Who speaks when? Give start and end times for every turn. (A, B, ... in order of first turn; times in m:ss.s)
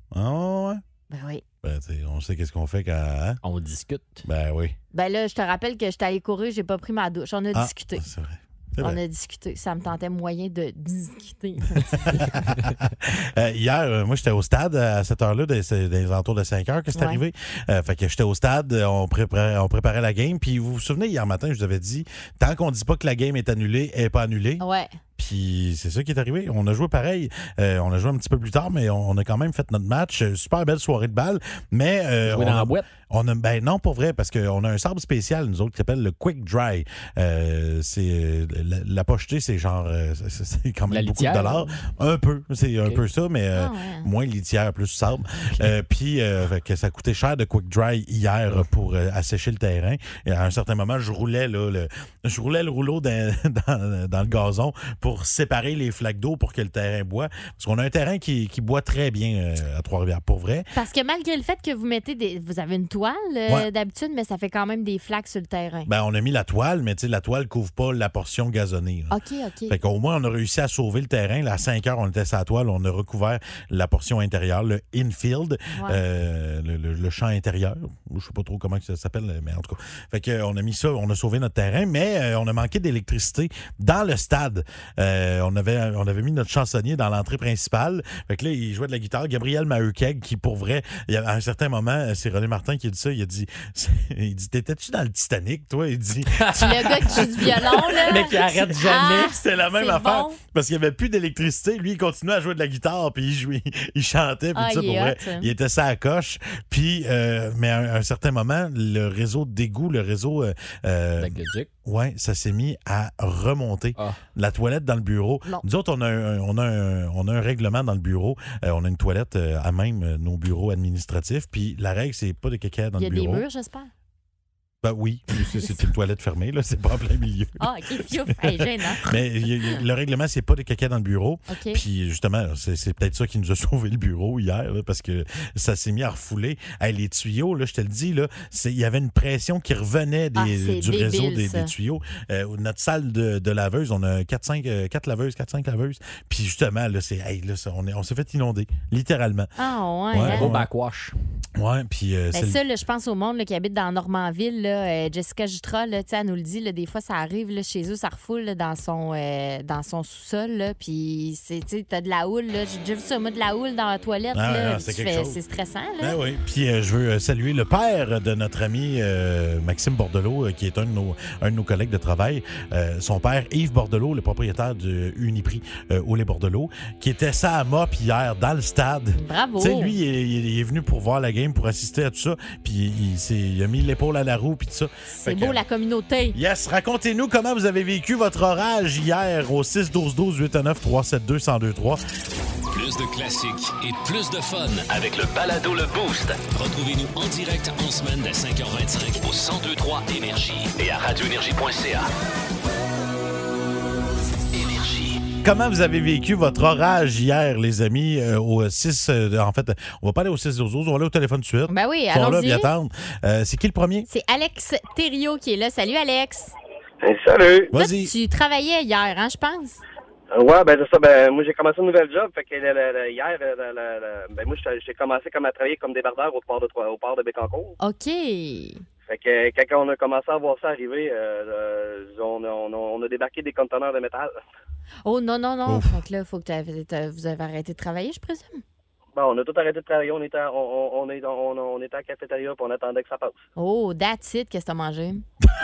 0:00.1-0:00.8 A
0:01.1-0:01.4 B
0:01.6-0:03.4 A
0:03.4-0:04.2 C
0:04.3-0:04.8 A
0:04.9-0:08.0 B
0:07.5-0:09.0 A
0:08.8-0:12.3 B
0:12.1-0:24.6 A
0:16.9-0:17.2 B
0:24.6-0:25.0 B
0:25.2-1:00.7 A
0:32.3-0:32.8 C
0:40.9-0:41.9 C
0:43.6-0:44.1 B
1:00.7-1:05.9 B
1:05.9-1:09.2 A
1:09.1-1:09.8 B
1:09.7-1:37.5 A
1:15.7-1:16.0 B
1:36.6-1:40.4 B
1:37.9-1:39.3 C
1:39.0-2:03.4 A
1:44.6-1:45.5 B
1:51.2-1:51.7 C
2:03.0-2:03.9 B
2:04.8-2:29.5 A
2:05.4-2:05.7 B
2:07.6-2:09.1 B
2:11.5-2:11.8 B
2:20.4-2:21.7 B
2:29.6-2:30.5 B
2:30.1-2:30.7 A
2:30.2-2:31.1 C
2:31.6-2:32.6 A
2:32.3-2:46.2 B
2:44.3-2:45.4 A
2:46.0-3:05.6 A
2:59.2-3:00.0 B
3:05.1-3:06.4 B
3:06.3-3:12.0 A
3:12.7-3:22.1 D
3:24.5-3:25.2 D
3:25.4-3:34.1 A
3:31.7-3:32.7 B
3:34.1-3:36.5 B
3:37.0-3:37.7 E
3:37.7-3:38.1 A
3:37.7-3:39.8 B
3:40.3-3:47.8 E
3:47.8-3:48.8 B
3:49.1-3:54.3 E
3:55.0-3:58.6 B
3:55.7-3:55.9 A
3:59.2-4:03.4 E
4:03.6-4:05.2 B